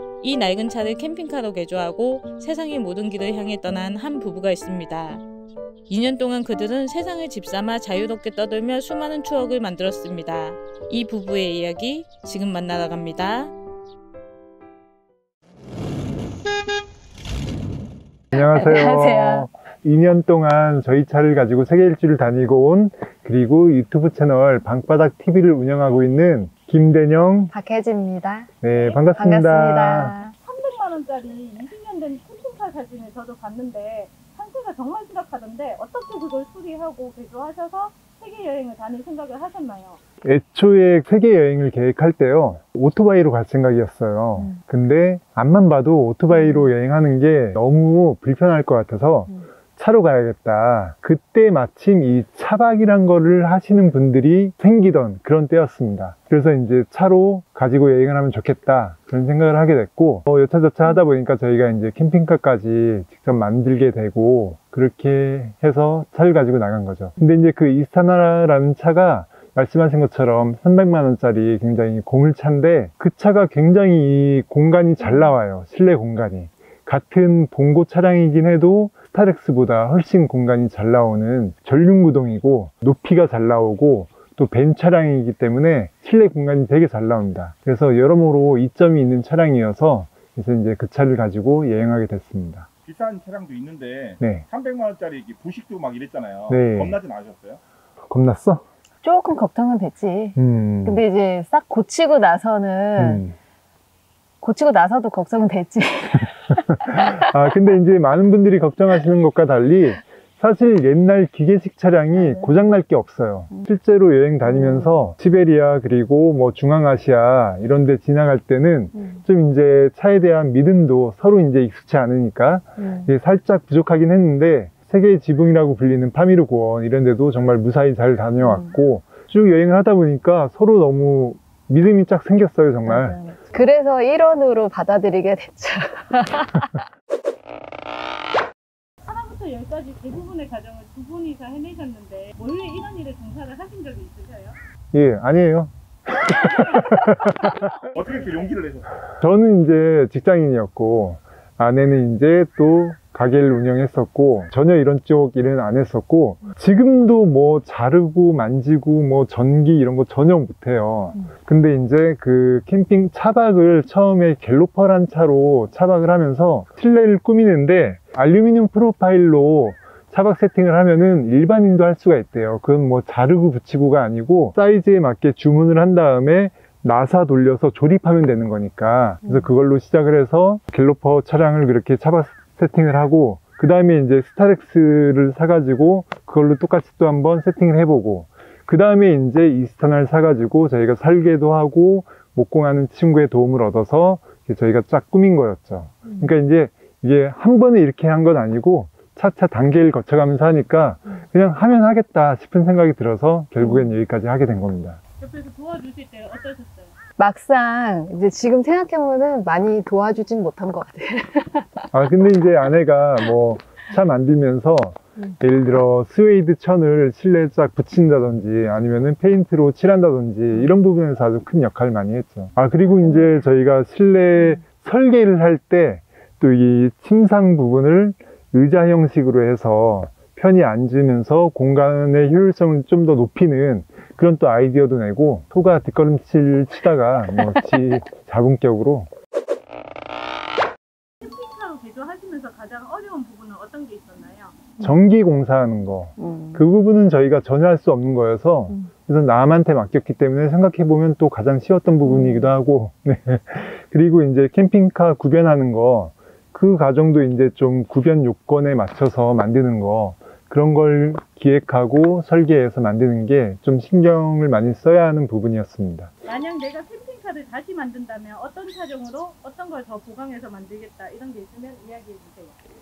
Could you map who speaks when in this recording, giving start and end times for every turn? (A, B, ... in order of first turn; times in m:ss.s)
0:00.2-0:05.2 A
0:05.9-0:13.5 A
0:18.3-0:19.5 B
0:18.3-0:27.5 C
0:27.5-0:30.3 B
0:28.6-0:30.2 C
0:28.7-0:29.2 D
0:30.3-0:40.0 D
0:40.2-1:32.7 C
0:46.3-0:46.7 B
1:32.8-1:37.6 E
1:34.2-1:34.4 C
1:36.5-1:37.0 C
1:38.1-1:38.6 C
1:39.0-1:43.2 B
1:40.4-1:41.0 C
1:43.0-1:43.4 C
1:44.4-1:47.4 B
1:46.9-2:13.2 C
1:52.2-1:52.5 B
1:54.4-1:55.0 B
2:02.8-2:03.1 B
2:08.4-2:08.7 B
2:12.8-2:16.8 B
2:19.0-2:24.6 D
2:24.9-2:27.7 C
2:26.8-2:28.6 D
2:27.9-2:29.0 E
2:29.0-3:25.0 C
3:23.6-3:23.9 B
3:25.2-3:26.9 D
3:27.2-3:31.9 B
3:31.9-3:59.1 C
4:01.2-4:04.6 D
4:04.8-4:26.1 C
4:06.2-4:06.6 B
4:12.0-4:12.5 B
4:26.2-4:32.5 D